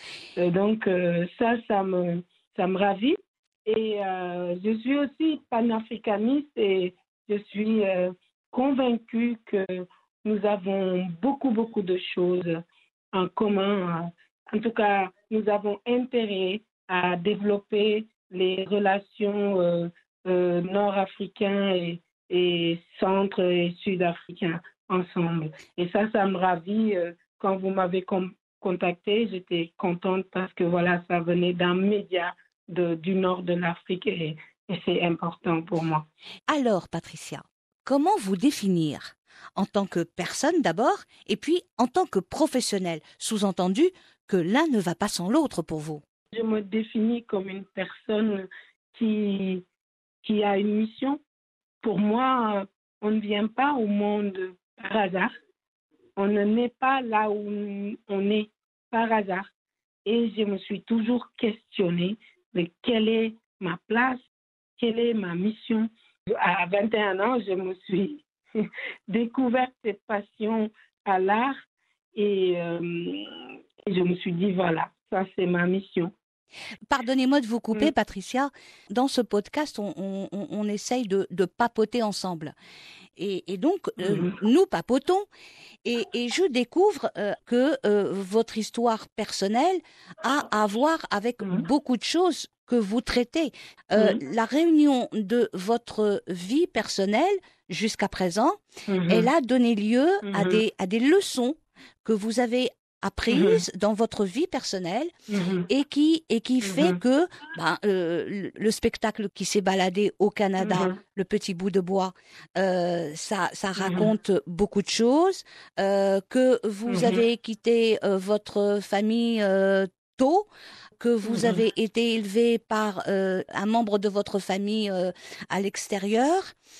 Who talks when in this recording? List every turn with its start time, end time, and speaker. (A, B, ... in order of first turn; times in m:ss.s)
0:00.4-0:36.1 A
0:36.5-0:46.0 B
0:46.3-0:49.6 A
0:50.2-0:51.2 A
0:51.8-0:55.3 A
0:56.2-0:59.5 A
1:00.1-1:04.2 A
1:04.8-1:11.6 A
1:12.2-1:16.1 A
1:16.9-1:22.6 B
1:23.2-1:25.3 B
1:24.0-1:24.4 A
1:25.8-1:45.1 B
1:38.9-1:39.3 A
1:40.2-1:40.6 A
1:43.3-1:43.6 A
1:45.3-1:45.7 A
1:45.7-2:00.5 B
1:46.6-1:47.0 A
1:50.6-1:51.0 A
1:53.8-1:54.1 A
1:56.9-1:57.2 A
2:01.0-2:06.5 B
2:01.3-2:01.6 A